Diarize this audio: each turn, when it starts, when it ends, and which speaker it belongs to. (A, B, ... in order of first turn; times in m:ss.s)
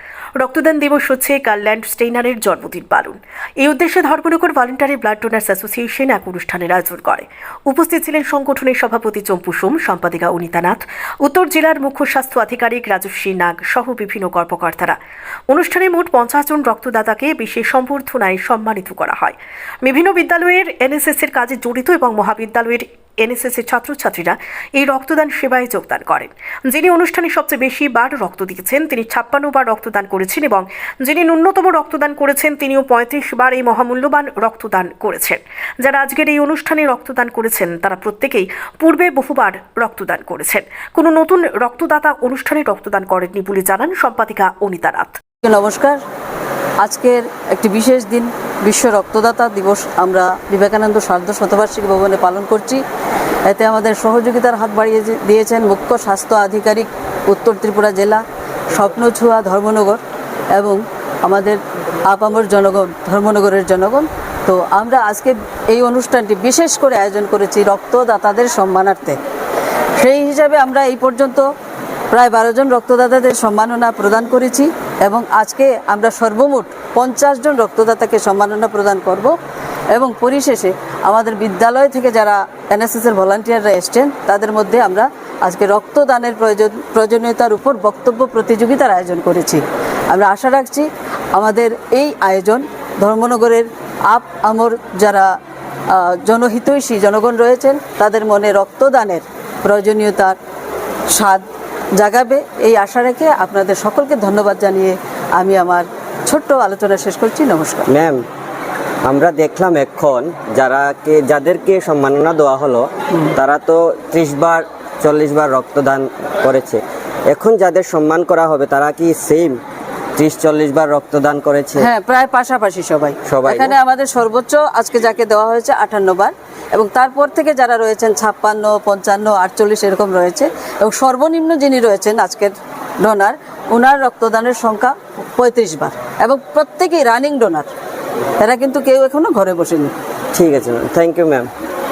0:00.4-0:15.0 A
0:15.5-0:45.2 A
0:45.4-0:46.0 B
0:46.8-0:52.8 B
0:53.5-1:00.0 B
1:00.5-1:09.2 B
1:10.0-1:11.4 B
1:12.1-1:19.3 B
1:19.9-1:35.3 B
1:35.9-1:40.4 B
1:41.1-1:41.4 B
1:42.0-1:47.9 B
1:47.9-1:48.2 C
1:49.0-1:59.6 C
2:00.2-2:01.9 C
2:01.8-2:17.7 B
2:03.3-2:03.8 C
2:18.4-2:19.9 B
2:20.4-2:21.5 C